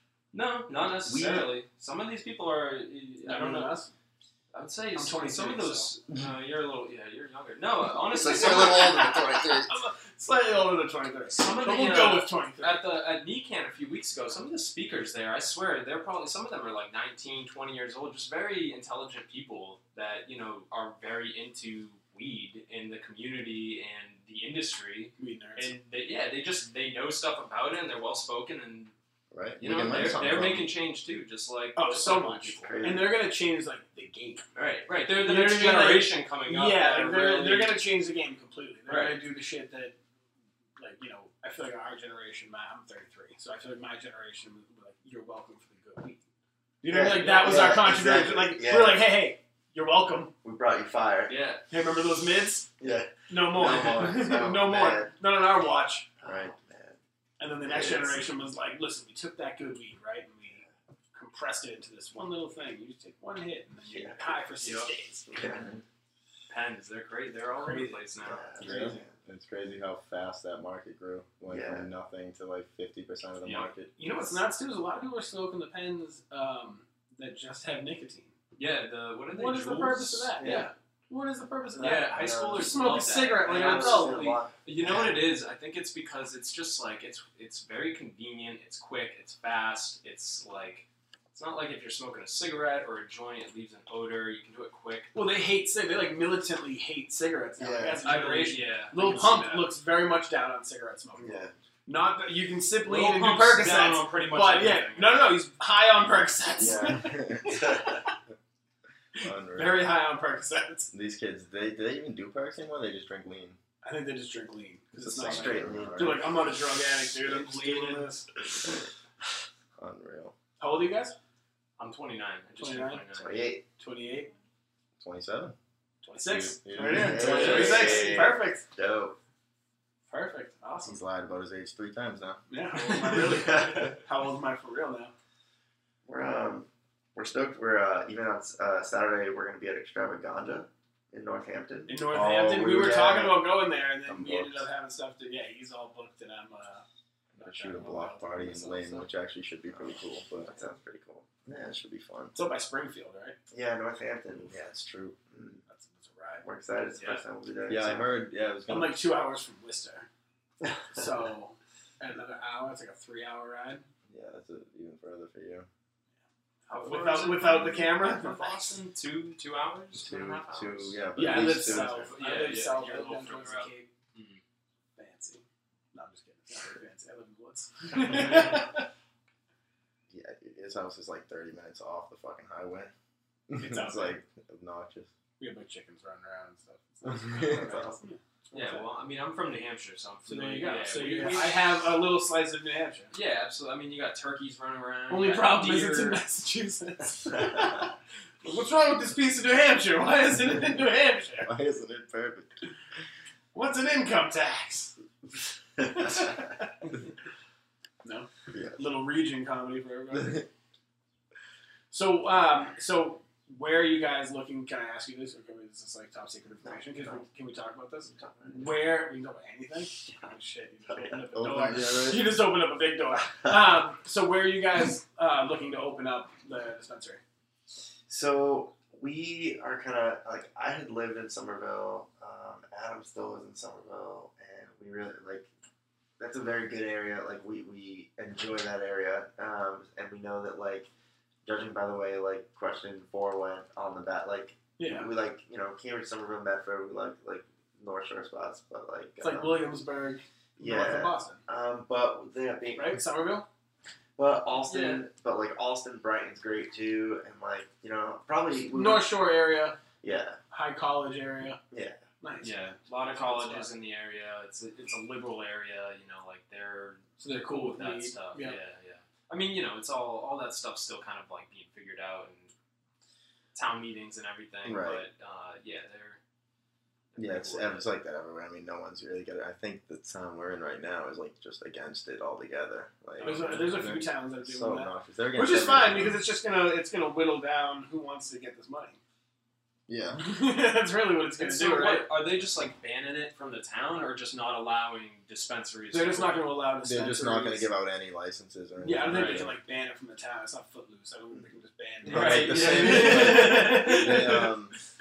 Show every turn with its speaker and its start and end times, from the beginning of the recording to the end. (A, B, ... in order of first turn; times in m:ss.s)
0:00.3-0:03.8 A
0:00.8-0:01.5 B
0:03.2-0:03.9 C
0:04.5-0:09.4 A
0:05.0-0:05.9 C
0:08.1-0:09.7 D
0:09.6-0:12.8 C
0:11.4-0:28.9 A
0:25.2-0:25.7 C
0:29.3-0:30.7 D
0:29.6-0:32.7 A
0:31.8-0:34.5 C
0:32.4-0:33.2 B
0:34.6-0:37.8 A
0:35.1-0:40.0 C
0:38.9-0:39.2 A
0:40.8-0:46.2 C
0:46.8-0:50.3 C
0:46.9-0:49.2 B
0:50.4-0:51.4 B
0:51.3-0:51.6 A
0:51.7-0:52.7 C
0:52.8-0:55.1 B
0:53.3-0:56.1 C
0:56.2-0:57.0 B
0:56.2-0:56.5 D
0:57.4-1:05.3 C
0:57.6-0:58.2 B
1:03.9-1:04.5 B
1:04.6-1:04.9 A
1:05.3-1:05.7 B
1:05.4-1:05.8 D
1:06.5-1:08.5 A
1:07.6-1:08.0 C
1:08.2-1:09.2 B
1:08.6-1:14.4 D
1:11.5-1:11.9 B
1:13.4-1:13.7 A
1:14.0-1:18.4 C
1:18.6-1:20.7 A
1:19.3-1:24.4 C
1:20.4-1:20.7 B
1:21.8-1:22.7 B
1:21.8-1:35.1 A
1:23.4-1:25.2 B
1:35.1-1:48.1 C
1:37.6-1:38.1 B
1:38.0-1:39.7 A
1:41.2-1:41.5 B
1:42.8-1:45.4 A
1:46.6-1:48.0 B
1:47.0-1:47.5 D
1:49.2-1:49.9 D
1:49.2-1:50.9 C
1:50.9-1:53.6 D
1:53.8-1:58.3 C
1:55.0-1:56.2 D
1:55.1-1:56.4 B
1:57.5-1:58.1 A
1:59.8-2:00.4 D
2:00.6-2:01.2 C
2:01.8-2:03.5 A
2:02.6-2:03.0 C
2:03.2-2:03.6 B
2:03.8-2:04.3 C
2:05.0-2:05.6 D
2:06.0-2:08.6 C
2:06.2-2:08.0 D
2:06.8-2:09.2 B
2:07.2-2:08.0 A
2:10.1-2:11.0 C
2:10.8-2:12.4 D
2:12.5-2:15.1 C
2:13.2-2:14.0 B
2:16.1-2:22.1 B
2:21.9-2:26.8 C
2:22.1-2:23.4 D
2:24.1-2:24.7 D
2:27.4-2:30.5 D
2:27.4-2:29.1 C
2:30.4-2:31.3 B
2:31.5-2:32.4 D
2:32.4-2:33.4 C
2:33.5-2:34.6 B
2:34.5-2:35.2 D
2:35.3-2:35.6 B
2:35.7-2:36.4 C
2:36.4-2:38.1 B
2:37.0-2:37.2 A
2:37.7-2:39.0 D
2:38.7-2:40.1 C
2:40.9-2:43.8 C
2:44.1-2:45.7 D
2:46.7-2:48.8 C
2:46.7-2:54.4 A
2:50.0-2:52.1 D
2:51.2-2:53.9 C
2:55.0-2:58.9 C
3:00.1-3:02.9 D
3:03.5-3:05.1 D
3:03.6-3:04.2 C
3:05.4-3:08.9 C
3:07.0-3:07.8 D
3:07.4-3:08.0 B
3:08.5-3:11.9 A
3:10.3-3:13.1 C
3:13.1-3:16.2 A
3:15.1-3:21.5 C
3:21.4-3:22.6 D
3:23.5-3:25.0 C
3:25.9-3:27.0 C
3:28.0-3:30.5 C
3:31.9-3:47.2 C
3:36.6-3:37.2 B
3:38.1-3:38.7 B
3:40.9-3:41.2 B
3:41.3-3:42.3 D
3:48.1-3:55.5 B
3:56.2-4:00.9 B
4:01.4-4:09.7 B
4:04.8-4:05.1 C
4:09.2-4:11.4 C
4:10.6-4:13.0 B
4:12.8-4:13.5 C
4:14.2-4:19.1 B
4:14.6-4:15.0 A
4:18.7-4:19.8 C
4:20.0-4:20.4 B
4:20.5-4:21.6 C
4:21.7-4:22.0 B
4:22.2-4:23.7 C
4:22.4-4:32.5 A
4:27.2-4:28.6 C
4:33.5-4:36.2 A
4:34.6-4:35.0 D
4:37.1-4:37.9 A
4:37.2-4:46.2 D
4:43.2-4:43.8 A
4:43.2-4:49.0 C
4:49.9-4:50.2 D
4:50.2-4:52.1 C
4:51.4-4:56.4 A
4:55.9-4:57.7 C
4:56.8-4:59.6 D
4:58.8-5:04.5 C
4:59.1-4:59.5 A
5:02.0-5:04.4 A
5:02.0-5:04.8 D